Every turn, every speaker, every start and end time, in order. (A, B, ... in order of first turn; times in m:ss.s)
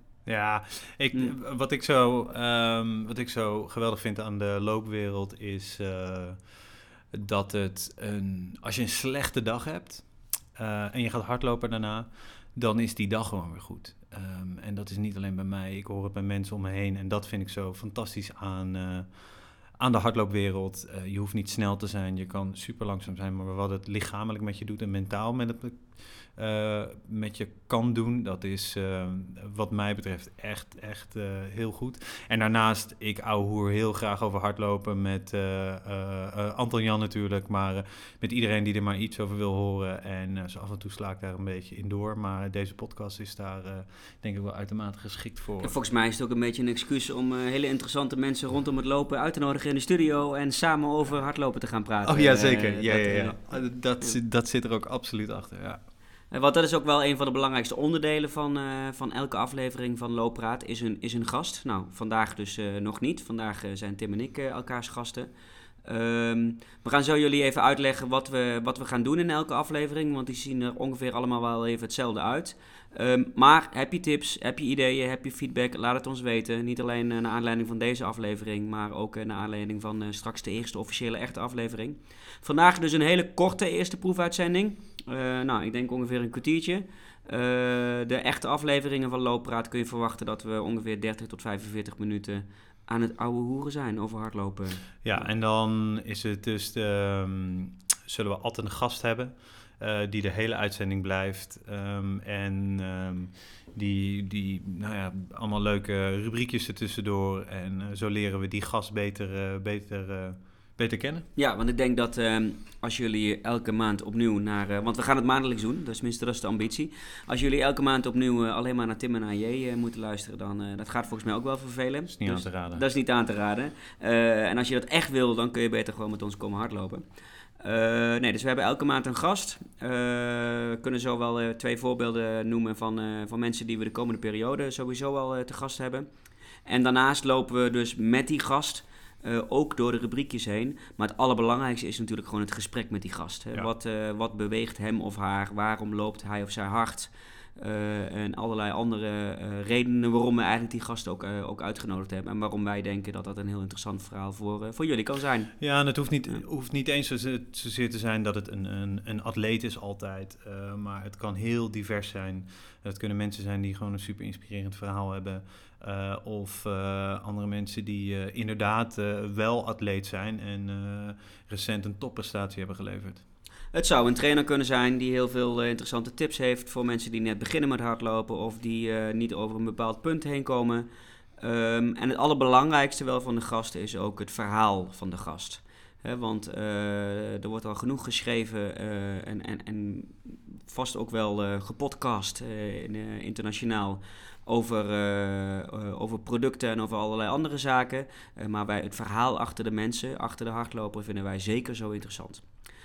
0:00.3-0:45.8 A
0:45.6-0:54.2 B
0:52.0-0:55.8 A
0:56.3-1:05.3 B
1:05.8-1:35.3 B
1:35.0-1:51.3 A
1:51.4-2:07.0 B
2:02.1-2:02.8 A
2:07.6-2:16.1 B
2:16.6-2:35.8 B
2:35.6-2:53.2 A
2:53.7-3:00.9 B
3:01.4-3:22.5 B